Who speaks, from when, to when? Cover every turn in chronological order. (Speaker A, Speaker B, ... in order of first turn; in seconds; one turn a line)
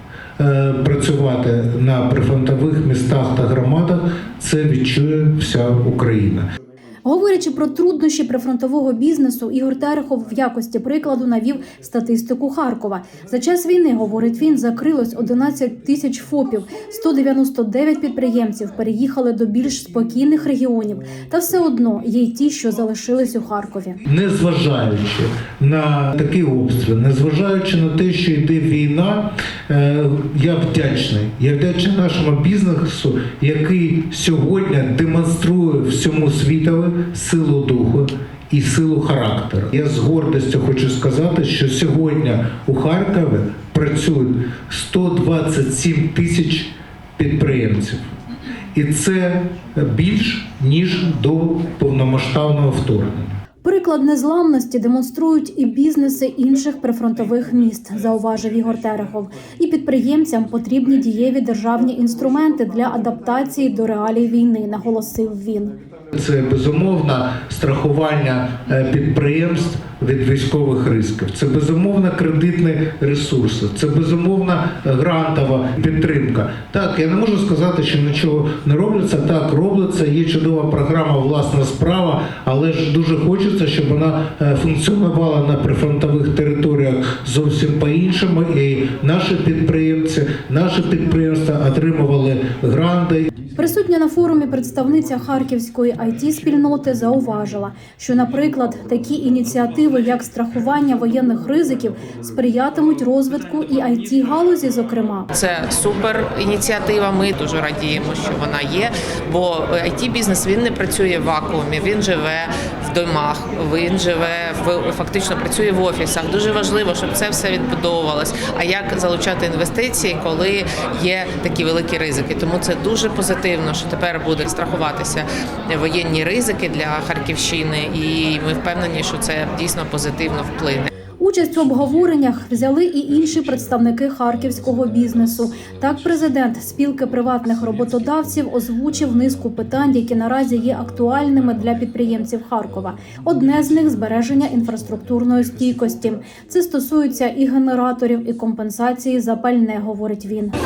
Speaker A: 0.4-6.5
Speaker B: 7.0-24.0
Speaker A: 24.0-48.2
Speaker A: 48.7-53.3
Speaker B: 53.6-65.8
Speaker A: 66.1-93.3
Speaker B: 93.5-105.3
Speaker C: 105.3-130.9
Speaker B: 131.2-150.5